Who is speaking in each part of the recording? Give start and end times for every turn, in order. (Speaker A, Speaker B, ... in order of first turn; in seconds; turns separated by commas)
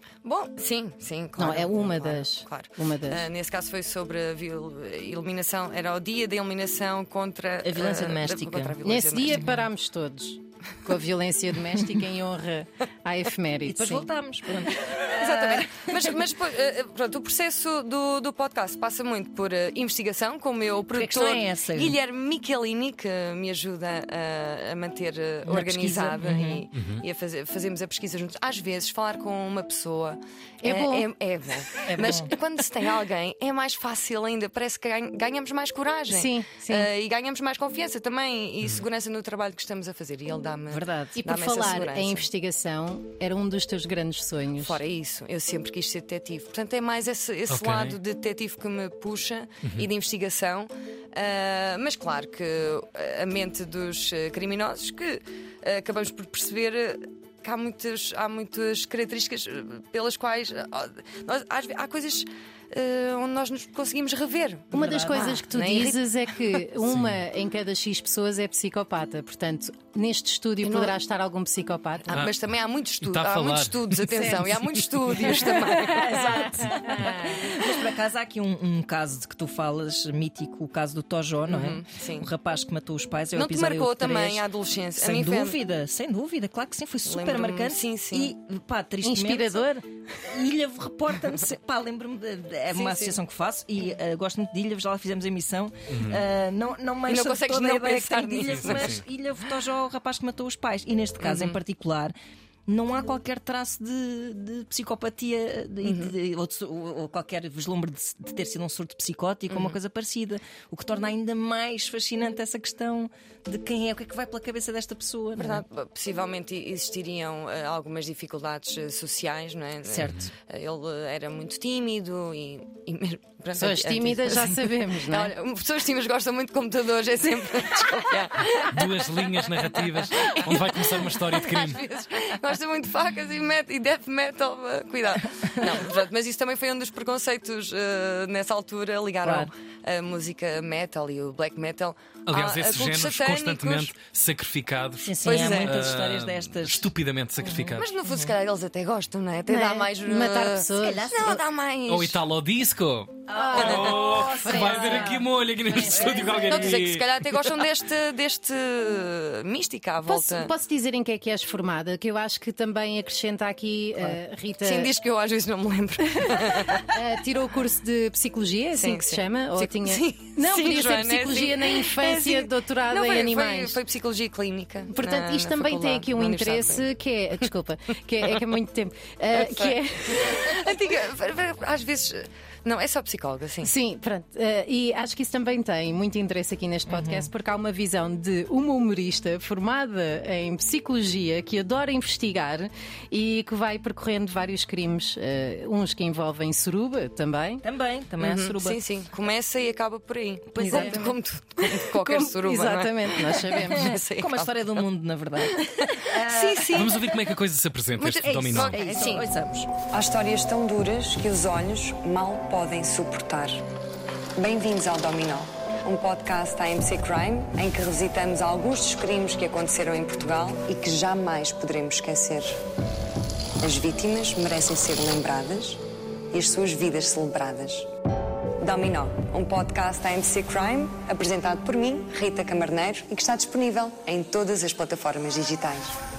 Speaker A: 0.2-9.4, Speaker B: 1.4-3.2, Speaker C: 7.6-8.8, Speaker B: 8.8-14.1, Speaker C: 9.4-9.6, Speaker C: 13.6-16.2, Speaker A: 14.8-42.3, Speaker C: 20.9-22.0, Speaker C: 25.5-26.6, Speaker D: 26.7-27.0, Speaker B: 30.6-31.1, Speaker C: 31.9-32.3, Speaker B: 36.1-36.9, Speaker C: 40.7-41.1, Speaker B: 41.1-44.8, Speaker A: 44.6-66.6, Speaker D: 47.5-48.0, Speaker B: 64.7-72.1, Speaker C: 64.7-65.3, Speaker D: 66.9-67.1, Speaker A: 70.6-71.0, Speaker A: 72.1-76.5, Speaker D: 73.0-74.0, Speaker B: 74.1-74.4, Speaker C: 75.9-102.1, Speaker A: 81.5-82.3, Speaker A: 83.3-85.6, Speaker A: 87.0-88.3, Speaker B: 89.0-89.8, Speaker A: 92.7-93.2, Speaker D: 95.9-96.2, Speaker A: 97.0-99.0, Speaker D: 98.5-99.0, Speaker A: 101.2-101.6, Speaker C: 102.7-115.6, Speaker A: 105.8-106.2, Speaker A: 109.5-109.8, Speaker A: 115.4-129.0, Speaker C: 119.9-120.3, Speaker B: 123.5-125.3, Speaker D: 128.7-131.8, Speaker A: 129.8-143.9, Speaker C: 139.2-139.5, Speaker D: 142.3-147.9, Speaker C: 145.0-146.9, Speaker A: 145.2-145.8, Speaker C: 147.4-148.3, Speaker A: 147.8-152.2, Speaker B: 149.5-151.1, Speaker C: 150.8-151.4, Speaker D: 151.9-157.4, Speaker C: 153.3-156.8, Speaker B: 153.3-155.2, Speaker A: 153.5-154.0, Speaker A: 155.8-160.5, Speaker B: 160.0-164.9, Speaker A: 164.0-166.9, Speaker B: 166.8-173.8, Speaker A: 168.8-176.9, Speaker B: 174.9-180.4, Speaker A: 179.3-183.7, Speaker B: 183.6-197.6, Speaker C: 186.9-187.3, Speaker C: 197.6-198.8, Speaker A: 198.2-204.8, Speaker C: 200.5-201.0, Speaker B: 200.6-201.2, Speaker B: 201.8-203.9, Speaker C: 203.7-207.1, Speaker A: 205.4-207.1, Speaker D: 206.7-208.8, Speaker A: 208.0-209.3, Speaker C: 208.2-209.7, Speaker E: 209.9-213.6, Speaker E: 214.3-222.5, Speaker E: 223.6-227.9, Speaker E: 228.6-235.9